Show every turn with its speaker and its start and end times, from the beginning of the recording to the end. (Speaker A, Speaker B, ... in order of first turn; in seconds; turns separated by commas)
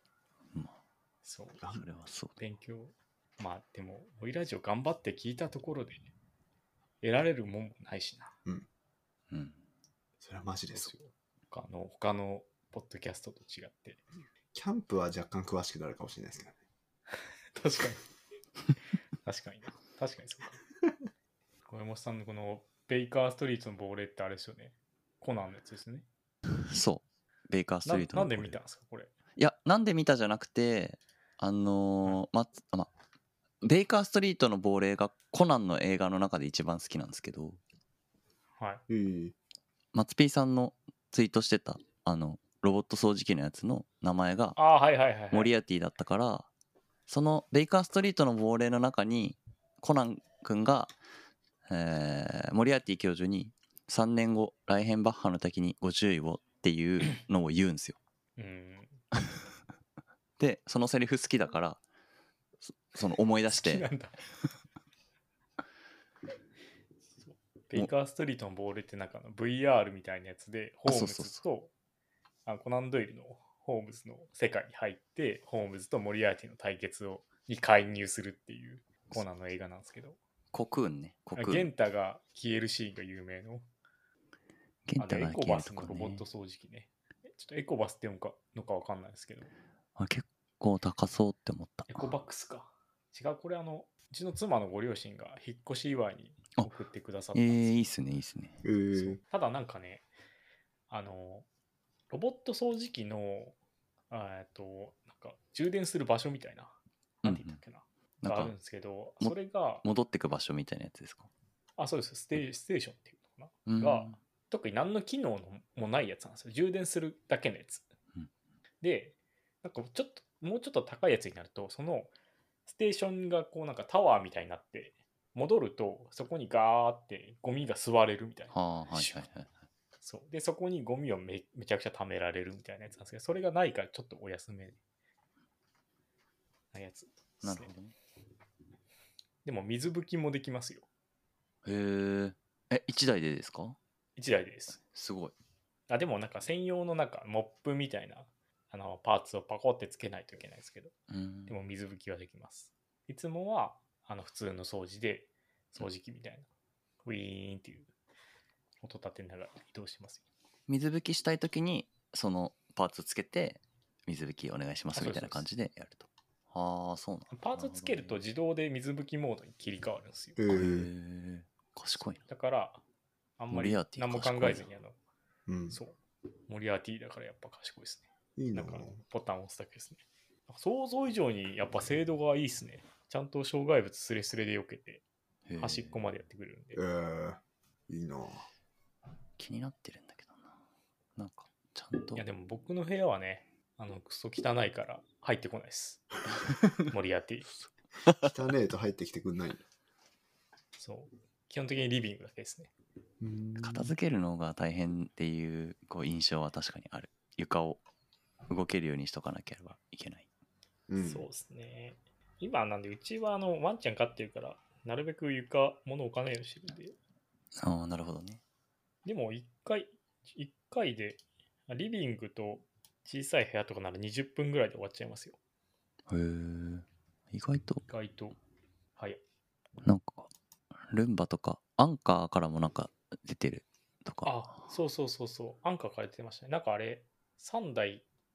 Speaker A: 1.2-1.6, Speaker B: 1.6-2.4, Speaker A: 2.4-6.1, Speaker A: 7.0-8.3, Speaker B: 9.3-9.6, Speaker C: 10.2-10.9, Speaker A: 10.7-14.0, Speaker C: 14.5-16.6, Speaker A: 17.6-18.0, Speaker A: 19.2-20.6, Speaker A: 21.7-26.1, Speaker B: 26.6-28.6, Speaker A: 27.9-29.1, Speaker B: 29.4-32.9, Speaker B: 33.6-37.6, Speaker C: 38.9-39.4, Speaker B: 39.9-44.6, Speaker A: 44.6-45.5, Speaker B: 45.3-46.5, Speaker B: 47.1-50.9, Speaker B: 51.7-58.0, Speaker A: 58.4-59.0, Speaker B: 60.4-61.8, Speaker B: 62.7-63.9, Speaker A: 63.5-64.1, Speaker A: 67.2-71.7, Speaker B: 70.9-71.4, Speaker A: 72.5-80.2, Speaker B: 80.5-81.7, Speaker A: 81.4-83.7, Speaker B: 84.9-86.2, Speaker A: 85.0-89.5, Speaker B: 90.0-92.1, Speaker A: 91.9-97.8, Speaker B: 97.3-98.6, Speaker C: 98.6-99.2, Speaker A: 98.9-100.1, Speaker A: 100.9-101.5, Speaker A: 102.1-103.6, Speaker A: 104.1-109.8, Speaker B: 107.2-107.6, Speaker B: 108.2-108.5, Speaker B: 109.2-111.3, Speaker A: 111.8-117.9, Speaker B: 113.7-114.2, Speaker A: 118.8-122.1, Speaker A: 122.7-129.2, Speaker B: 128.5-129.5, Speaker A: 130.0-134.8, Speaker A: 136.7-137.7, Speaker B: 137.4-137.9, Speaker A: 139.4-140.9, Speaker B: 141.7-143.8, Speaker A: 144.2-144.8, Speaker B: 144.8-145.3, Speaker A: 145.9-150.9, Speaker B: 151.1-151.5, Speaker A: 151.5-156.5, Speaker A: 157.1-157.9, Speaker A: 158.8-160.2, Speaker B: 160.7-168.2, Speaker A: 164.9-165.4, Speaker A: 167.3-170.4, Speaker C: 170.4-170.9, Speaker B: 170.5-172.2, Speaker A: 172.2-172.8, Speaker A: 173.4-175.0, Speaker B: 173.5-174.7, Speaker C: 175.5-175.8, Speaker A: 175.7-176.0, Speaker A: 176.5-185.0, Speaker C: 178.4-179.0, Speaker B: 185.5-186.0, Speaker A: 185.6-186.8, Speaker C: 186.8-188.4, Speaker B: 189.4-190.5, Speaker B: 191.2-192.2, Speaker A: 192.2-196.0, Speaker A: 196.9-197.5, Speaker C: 198.1-199.6, Speaker A: 200.8-202.7, Speaker C: 203.2-203.9, Speaker B: 203.6-207.8, Speaker B: 208.5-210.3, Speaker C: 210.9-211.3, Speaker A: 211.0-217.0, Speaker B: 217.6-218.4, Speaker A: 219.1-225.4, Speaker B: 226.1-227.8, Speaker A: 227.9-228.4, Speaker B: 229.8-230.3, Speaker B: 230.9-234.6, Speaker A: 234.2-238.1